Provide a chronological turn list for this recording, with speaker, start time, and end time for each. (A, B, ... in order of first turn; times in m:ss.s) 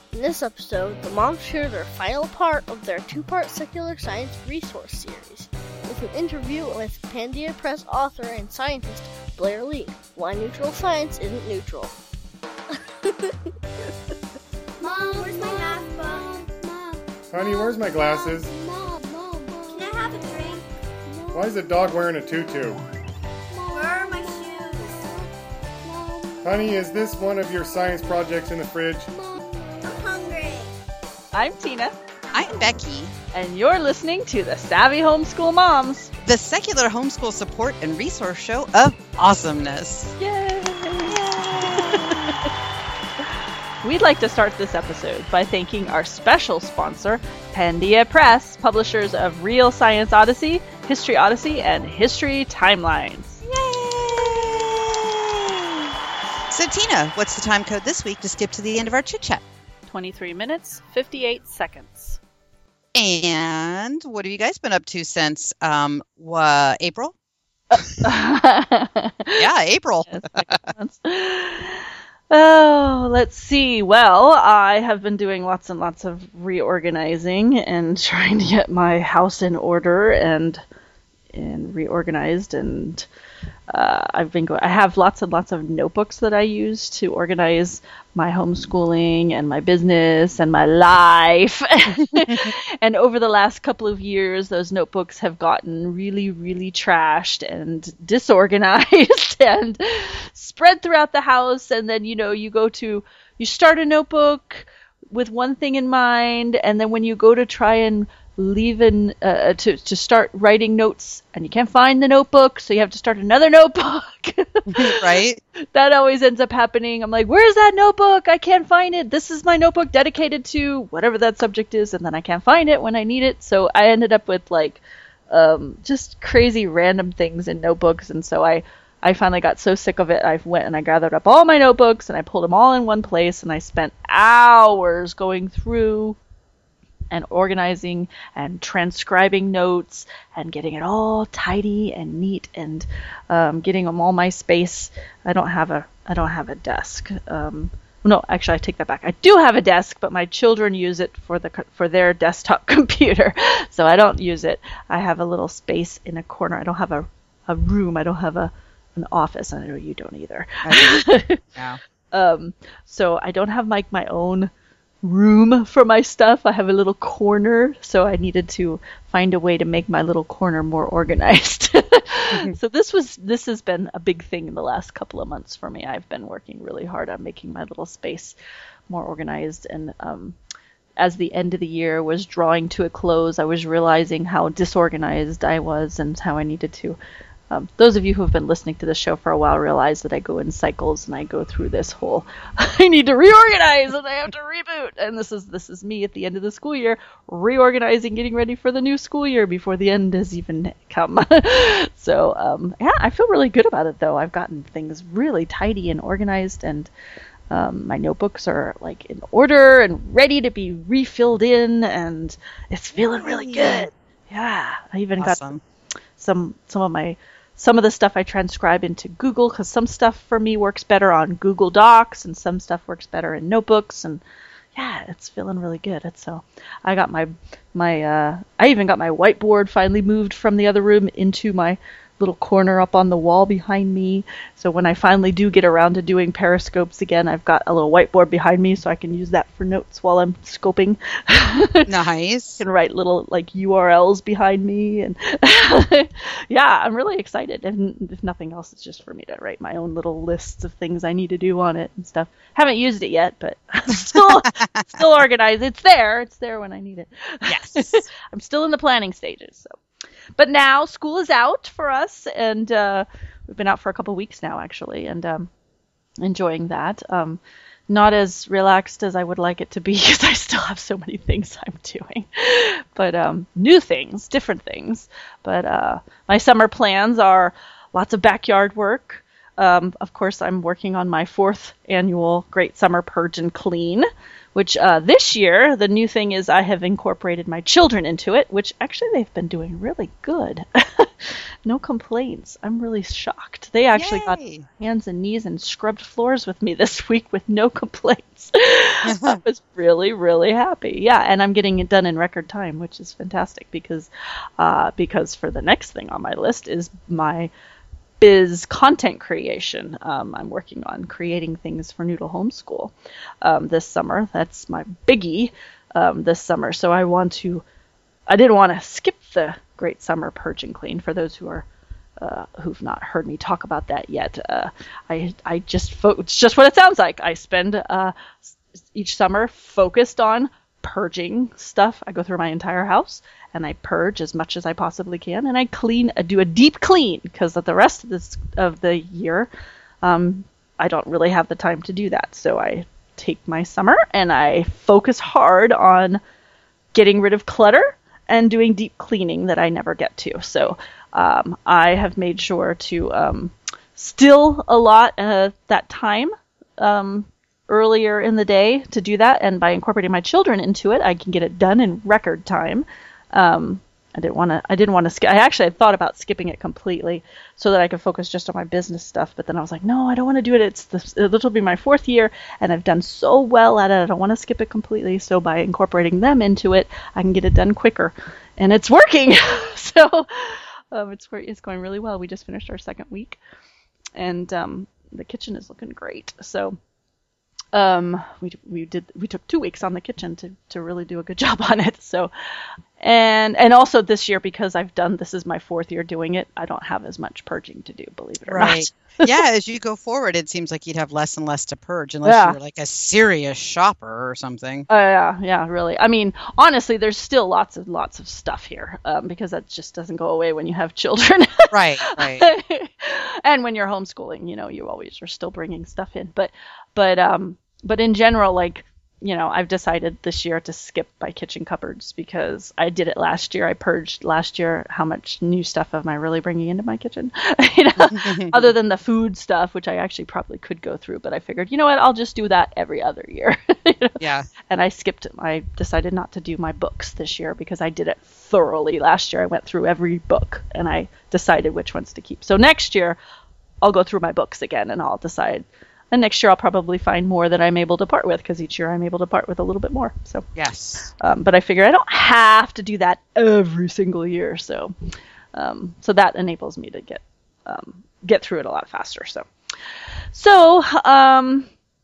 0:00.1-0:11.9 A
0:14.8-0:16.4 A
0:14.8-0:16.5 B
0:17.3-0:18.5 C
0:18.6-0:20.3 A
0:19.7-0:20.6 B
0:21.3-0:22.8 C
0:23.6-0:25.0 A
0:23.7-0:25.0 B
0:26.4-0:29.1 C
0:29.8-0:30.7 B
0:31.3-0:32.0 D
0:32.3-0:33.1 E
0:33.3-0:36.1 D
0:36.2-0:40.2 E
0:40.2-0:42.2 D
0:41.0-0:42.4 E
0:43.8-0:53.4 D
0:53.4-0:55.9 E
0:56.5-0:59.4 E
0:59.9-1:02.2 D
1:02.9-1:07.1 E
1:07.7-1:09.4 D
1:09.4-1:10.6 E
1:10.1-1:20.6 D
1:21.3-1:23.0 D
1:23.7-1:55.0 D
1:54.7-1:55.4 E
1:55.7-2:16.2 D
2:17.1-2:41.4 D
2:40.6-2:41.8 E
2:42.1-2:44.5 D
2:45.0-2:58.4 D
2:58.9-3:00.4 D
3:01.0-3:07.0 D
3:07.5-3:26.9 D
3:27.5-3:35.5 D
3:33.2-3:33.9 E
3:35.2-3:35.6 E
3:36.2-3:44.2 D
3:44.7-4:01.9 D
4:01.8-4:02.6 E
4:02.6-4:19.8 D
4:14.2-4:14.9 E
4:17.5-4:18.0 E
4:20.4-4:25.5 D
4:26.2-5:07.5 D
4:53.9-4:54.6 E
4:59.0-4:59.4 E
5:08.2-5:17.6 D
5:18.3-5:21.6 D
5:22.2-5:39.5 D
5:40.0-5:46.2 D
5:46.9-6:23.4 D
6:24.1-6:26.8 D
6:27.7-6:32.3 D
6:33.0-6:39.3 D
6:38.5-6:44.9 E
6:42.2-6:42.6 D
6:44.9-7:23.2 D
6:51.7-6:52.4 E
7:08.1-7:08.7 E
7:14.2-7:14.5 E
7:23.8-7:30.5 D
7:30.6-7:31.1 E
7:31.1-7:34.9 D
7:35.5-7:39.5 D
7:40.3-7:41.7 D